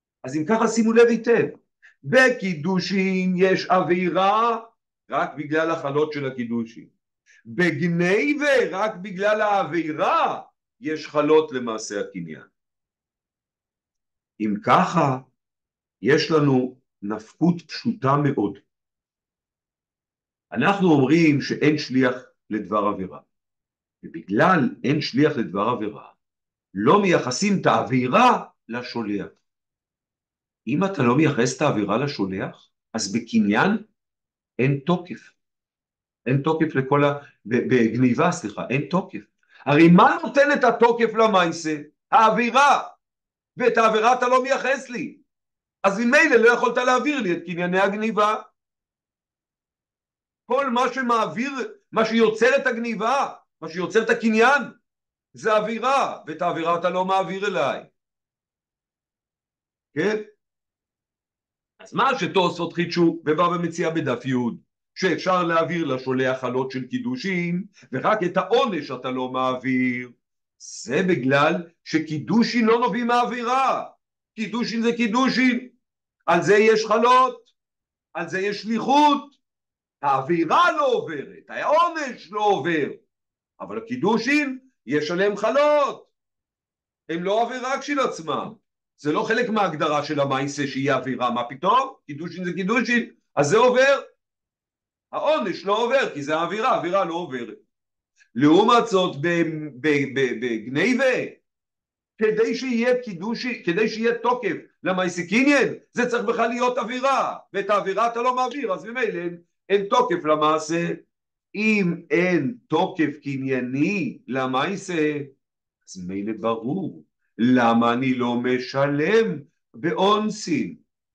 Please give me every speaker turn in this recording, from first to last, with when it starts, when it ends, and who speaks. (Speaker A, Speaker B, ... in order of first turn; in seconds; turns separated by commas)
Speaker A: 0.2-6.9, Speaker A: 7.5-12.5, Speaker A: 14.4-15.3, Speaker A: 16.0-18.6, Speaker A: 20.5-23.2, Speaker A: 24.0-26.1, Speaker A: 26.7-29.3, Speaker A: 30.7-33.8, Speaker A: 34.6-35.3, Speaker A: 36.2-42.9, Speaker A: 43.5-45.2, Speaker A: 45.8-48.5, Speaker A: 50.5-54.8, Speaker A: 55.3-57.9, Speaker A: 59.9-60.3, Speaker A: 61.8-75.7, Speaker A: 76.3-77.5, Speaker A: 78.1-79.4, Speaker A: 80.0-83.0, Speaker A: 83.6-86.1, Speaker A: 87.1-94.0, Speaker A: 95.1-97.6, Speaker A: 98.3-101.4, Speaker A: 102.2-111.0, Speaker A: 111.5-115.3, Speaker A: 115.8-120.8